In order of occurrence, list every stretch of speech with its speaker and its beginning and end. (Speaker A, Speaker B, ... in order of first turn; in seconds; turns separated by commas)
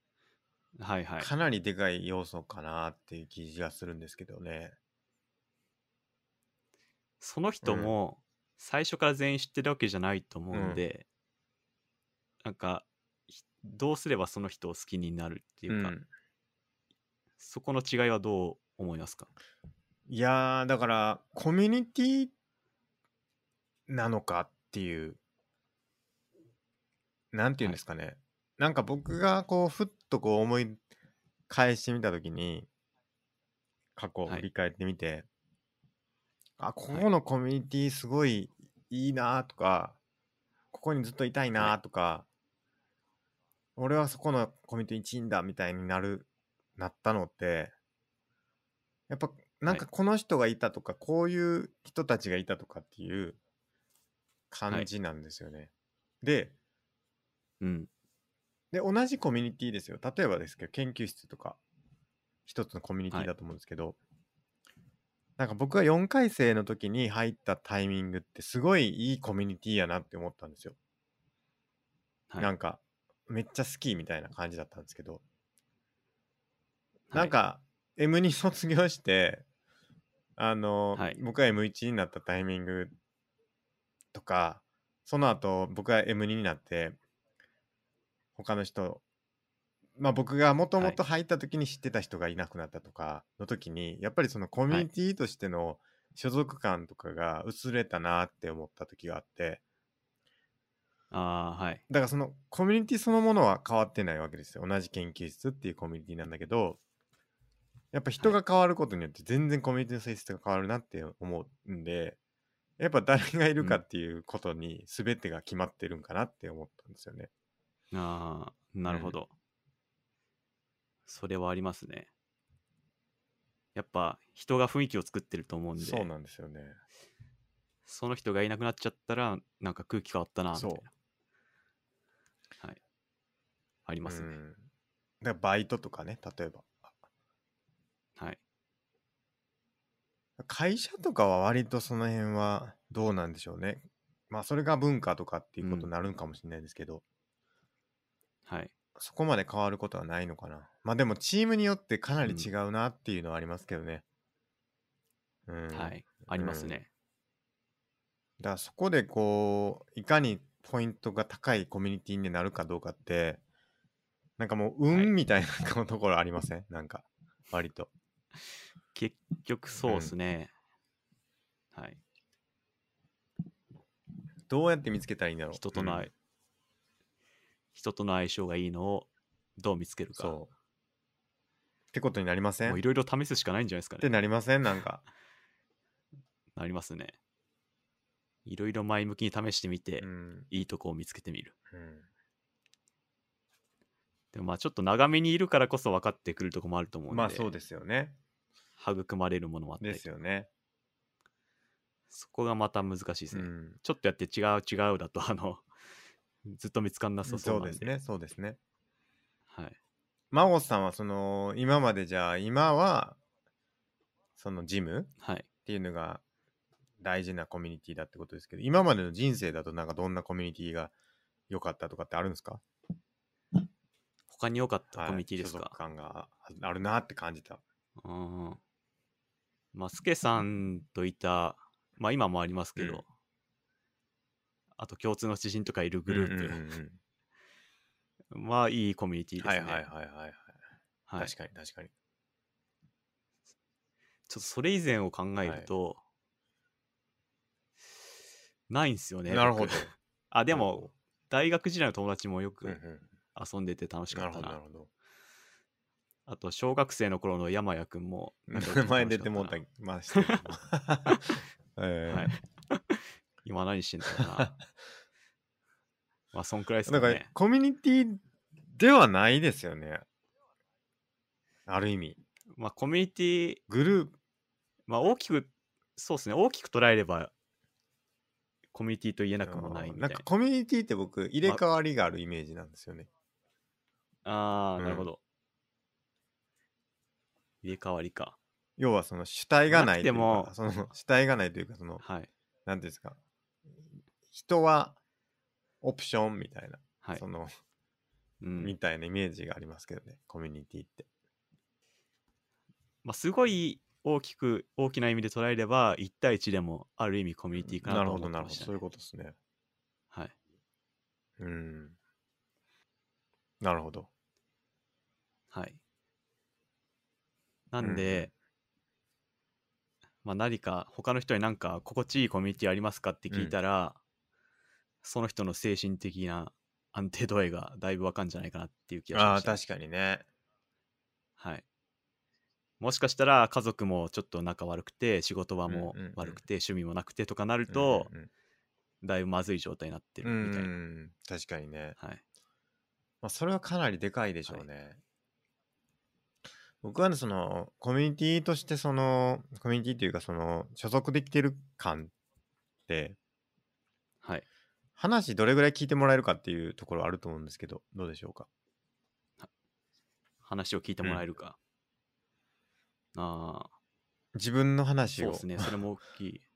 Speaker A: 0.8-1.3, Speaker B: 1.2-4.8, Speaker A: 7.2-11.0, Speaker B: 7.6-7.9, Speaker B: 10.5-10.8, Speaker A: 12.4-15.9, Speaker B: 15.7-16.1, Speaker A: 17.4-19.3, Speaker B: 20.1-22.3, Speaker B: 23.9-25.2, Speaker B: 27.3-30.8, Speaker B: 31.5-32.7, Speaker B: 34.0-35.2, Speaker B: 36.6-40.0, Speaker B: 40.7-42.2, Speaker B: 43.8-47.7, Speaker B: 49.1-53.4, Speaker B: 54.5-55.7, Speaker B: 56.2-56.5, Speaker A: 57.6-57.9, Speaker B: 58.7-61.6, Speaker B: 62.5-64.0, Speaker B: 65.4-70.8, Speaker B: 72.4-75.2, Speaker B: 77.1-79.4, Speaker B: 80.4-82.9, Speaker B: 84.1-87.0, Speaker B: 88.3-89.0, Speaker B: 90.0-99.6, Speaker A: 101.1-101.8, Speaker B: 101.9-106.8, Speaker B: 107.9-112.2, Speaker B: 112.8-117.3, Speaker A: 117.9-119.3, Speaker B: 118.8-119.1, Speaker A: 121.0-122.1, Speaker A: 123.7-126.1, Speaker B: 125.8-126.8, Speaker A: 127.8-130.9, Speaker B: 130.5-130.8, Speaker A: 133.8-134.3, Speaker B: 134.1-134.6, Speaker B: 135.2-136.7, Speaker B: 140.4-147.0, Speaker A: 145.6-145.9, Speaker A: 148.4-148.7, Speaker B: 149.0-154.0, Speaker A: 152.2-152.5, Speaker B: 155.5-156.8, Speaker A: 155.7-156.9, Speaker B: 158.4-163.4, Speaker B: 164.4-167.9, Speaker A: 168.9-170.5, Speaker B: 169.8-170.1, Speaker A: 171.7-172.0, Speaker B: 174.5-176.1, Speaker A: 175.5-176.1, Speaker A: 177.7-180.3, Speaker B: 180.2-180.5, Speaker B: 181.9-182.8, Speaker A: 182.7-184.1, Speaker B: 184.0-185.0, Speaker A: 186.5-187.2, Speaker A: 188.4-191.5, Speaker B: 190.0-190.5, Speaker B: 191.7-192.1, Speaker A: 194.3-197.5, Speaker B: 197.1-198.2, Speaker A: 198.8-200.0, Speaker B: 199.8-200.5, Speaker A: 202.1-205.6, Speaker B: 203.3-203.8, Speaker A: 206.4-207.9, Speaker B: 207.2-208.6, Speaker A: 209.5-209.8, Speaker B: 210.3-213.2, Speaker B: 214.4-215.1, Speaker A: 215.2-215.4, Speaker B: 215.7-216.2, Speaker B: 217.0-220.9, Speaker B: 221.5-222.6, Speaker A: 224.3-225.8, Speaker B: 224.9-227.6, Speaker A: 228.0-228.6, Speaker A: 229.7-233.1, Speaker B: 232.8-233.0, Speaker A: 234.8-236.6, Speaker B: 236.1-237.0, Speaker A: 238.3-239.8, Speaker B: 239.4-240.5, Speaker A: 241.1-241.3, Speaker B: 241.2-241.9, Speaker A: 244.3-246.0, Speaker B: 245.4-245.7, Speaker A: 248.7-252.8, Speaker B: 249.3-249.9, Speaker B: 250.5-250.9, Speaker B: 252.6-253.1, Speaker A: 253.3-254.6, Speaker B: 254.1-254.9, Speaker A: 256.3-259.6, Speaker B: 258.5-262.4, Speaker A: 262.1-264.6, Speaker B: 264.1-264.6, Speaker A: 266.3-267.3, Speaker B: 266.9-268.2, Speaker B: 268.7-270.0, Speaker B: 271.7-272.2, Speaker A: 272.5-273.6, Speaker B: 273.7-274.1, Speaker A: 274.9-277.3, Speaker A: 278.7-280.2, Speaker B: 279.4-283.1, Speaker A: 284.2-285.2, Speaker B: 284.8-285.1, Speaker A: 287.6-288.4, Speaker B: 288.8-292.0, Speaker A: 289.7-290.5, Speaker A: 292.0-292.3, Speaker B: 292.6-293.2, Speaker B: 294.3-295.0, Speaker B: 295.8-297.5, Speaker A: 298.4-298.7, Speaker B: 298.6-301.1, Speaker A: 303.0-308.7, Speaker B: 307.7-309.3, Speaker B: 311.4-311.9, Speaker B: 313.6-314.1, Speaker A: 315.5-315.8, Speaker A: 317.7-318.3, Speaker B: 317.8-318.3, Speaker A: 320.2-324.0, Speaker A: 325.0-329.6, Speaker B: 329.1-330.2, Speaker A: 331.4-331.6, Speaker A: 332.8-338.1, Speaker B: 335.7-336.4, Speaker B: 337.7-338.3, Speaker A: 339.0-340.7, Speaker B: 340.2-341.9, Speaker B: 343.2-345.0, Speaker B: 346.8-352.1, Speaker B: 352.9-353.2, Speaker B: 355.0-358.5, Speaker A: 360.4-361.6, Speaker A: 363.1-363.7, Speaker B: 364.3-365.7, Speaker A: 365.2-366.4